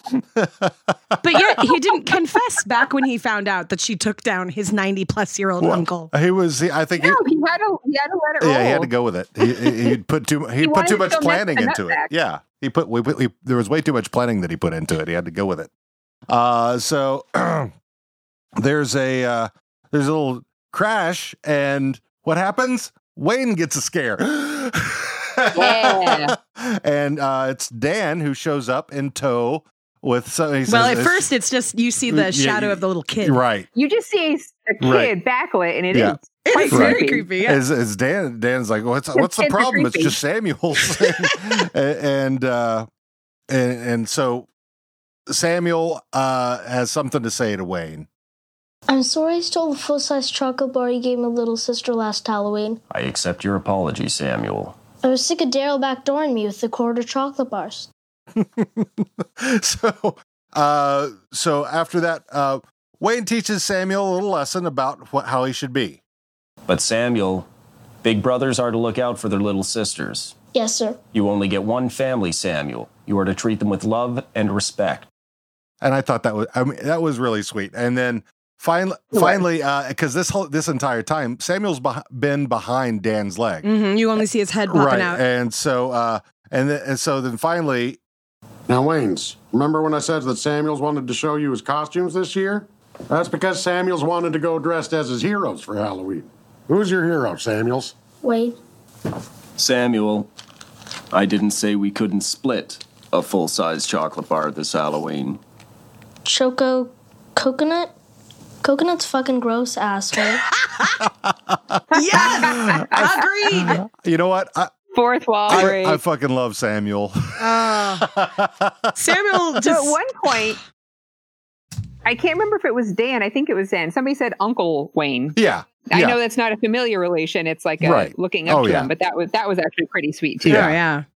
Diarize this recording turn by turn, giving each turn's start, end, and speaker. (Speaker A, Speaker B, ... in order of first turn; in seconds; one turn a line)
Speaker A: 0.3-0.9
Speaker B: 1.2-6.1
Speaker A: 5.6-7.2
Speaker C: 7.0-8.9
Speaker A: 8.4-15.7
Speaker C: 9.4-9.9
Speaker C: 10.6-12.1
Speaker A: 16.3-17.7
Speaker A: 18.6-31.3
Speaker C: 25.5-26.3
Speaker B: 30.7-33.4
Speaker A: 32.1-33.7
Speaker C: 33.7-37.3
Speaker A: 34.8-35.1
Speaker A: 35.9-36.2
Speaker B: 36.4-37.6
Speaker A: 36.7-42.9
Speaker C: 39.1-40.1
Speaker A: 43.5-44.5
Speaker A: 45.3-48.1
Speaker D: 48.9-52.8
Speaker E: 52.9-54.8
Speaker D: 55.0-57.9
Speaker A: 58.4-66.0
Speaker E: 66.7-67.5
Speaker E: 68.0-70.3
Speaker D: 70.5-71.0
Speaker E: 71.1-75.1
Speaker A: 75.8-83.7
Speaker B: 83.6-85.2
Speaker A: 84.7-88.0
Speaker F: 88.7-97.9
Speaker D: 98.2-98.5
Speaker E: 99.6-100.3
Speaker E: 101.1-105.4
Speaker D: 106.2-107.9
Speaker D: 108.6-110.4
Speaker A: 111.0-111.8
Speaker B: 111.9-113.8
Speaker C: 112.0-113.1
Speaker A: 112.3-112.9
Speaker A: 113.5-114.7
Speaker C: 114.9-116.0
Speaker A: 115.5-119.4
Speaker B: 117.4-118.0
Speaker B: 119.0-120.0
Speaker C: 119.6-120.6
Speaker C: 122.0-130.7
Speaker A: 125.3-126.2
Speaker A: 127.8-128.9
Speaker A: 130.4-130.8
Speaker B: 130.4-131.0